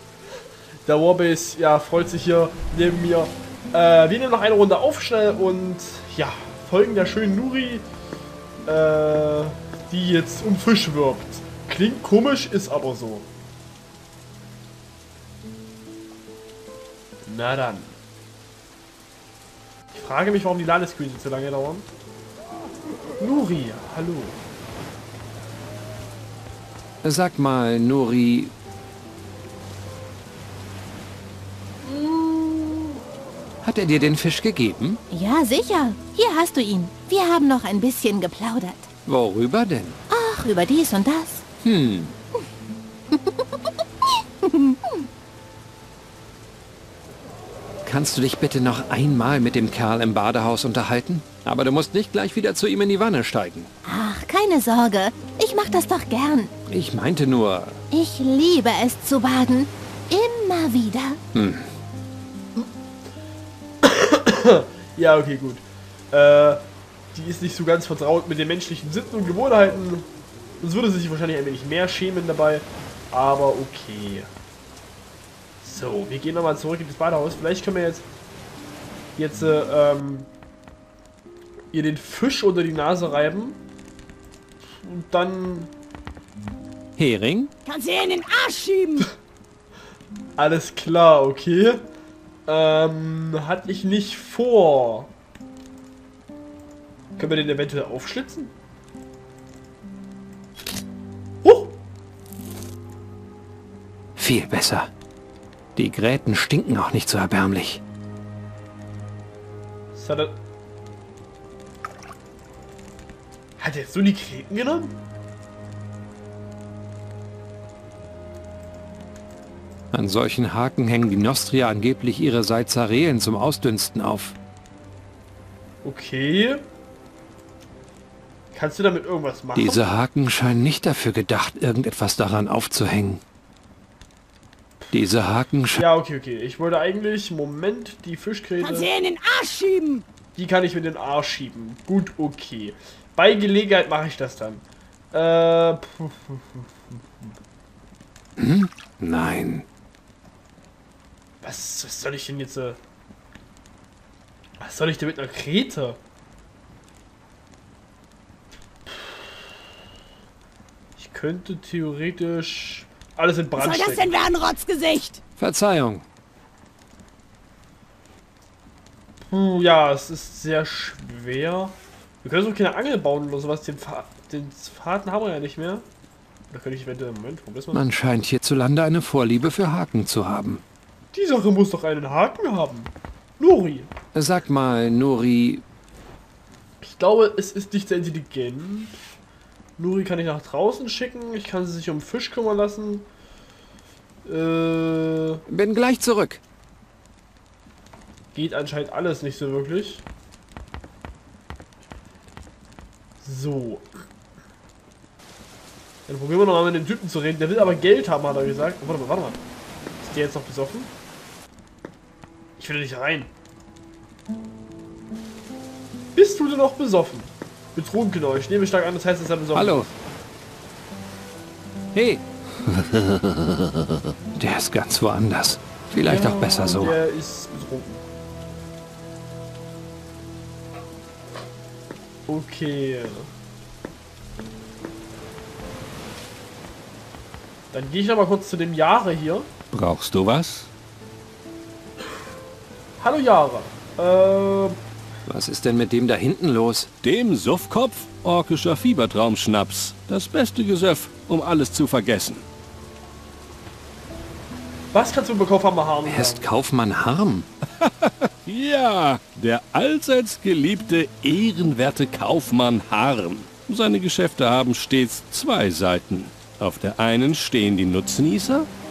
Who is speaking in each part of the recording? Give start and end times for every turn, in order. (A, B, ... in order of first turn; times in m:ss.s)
0:00.8-0:07.8 A
0:08.6-0:13.3 A
0:17.2-0:18.0 A
0:19.9-0:21.9 A
0:23.2-0:24.4 A
0:27.0-0:28.5 B
0:31.8-0:33.0 A
0:33.6-0:35.0 B
0:35.1-0:38.9 C
0:39.0-0:40.0 B
0:40.1-0:41.4 C
0:41.6-0:42.2 B
0:44.4-0:45.0 C
0:47.8-0:53.7 B
0:53.8-0:56.5 C
0:56.7-0:57.8 B
0:57.9-1:01.2 C
1:01.3-1:01.7 B
1:03.8-1:06.6 A
1:07.1-1:10.0 A
1:10.6-1:14.3 A
1:15.6-1:18.0 A
1:19.2-1:20.3 A
1:21.7-1:23.6 A
1:24.7-1:25.7 A
1:27.0-1:27.5 B
1:27.6-1:29.1 D
1:30.4-1:31.8 A
1:32.5-1:35.1 A
1:37.2-1:38.5 A
1:41.4-1:41.7 A
1:44.2-1:44.9 B
1:45.8-1:47.8 B
1:49.9-1:50.3 A
1:53.6-1:55.0 A
1:59.9-2:04.3 B
2:05.8-2:06.6 A
2:08.5-2:09.8 A
2:09.5-2:13.2 B
2:14.9-2:15.8 B
2:15.7-2:18.9 A
2:18.6-2:20.0 D
2:20.3-2:27.3 A
2:28.4-2:29.6 B
2:31.4-2:32.8 A
2:34.6-2:36.0 A
2:38.9-2:39.4 A
2:41.0-2:44.1 A
2:43.6-2:45.2 D
2:45.4-2:46.0 B
2:49.3-2:55.9 A
2:56.5-2:57.8 A
2:57.7-3:00.6 B
3:01.1-3:03.9 A
3:04.1-3:05.6 B
3:06.8-3:09.0 A
3:09.8-3:13.0 A
3:14.2-3:15.4 A
3:15.5-3:16.4 B
3:18.3-3:20.0 A
3:23.2-3:23.9 A
3:26.1-3:29.4 A
3:30.0-3:30.9 A
3:32.6-3:33.3 A
3:36.1-3:40.0 A
3:39.5-3:39.9 B
3:41.9-3:43.3 B
3:44.4-3:47.0 B
3:45.9-3:48.0 A
3:52.3-3:53.3 A
3:57.7-3:59.5 A
3:59.7-4:00.7 E
4:03.0-4:04.8 A
4:05.3-4:06.9 B
4:07.0-4:12.4 E
4:14.9-4:16.5 A
4:16.0-4:17.5 B
4:17.8-4:28.7 E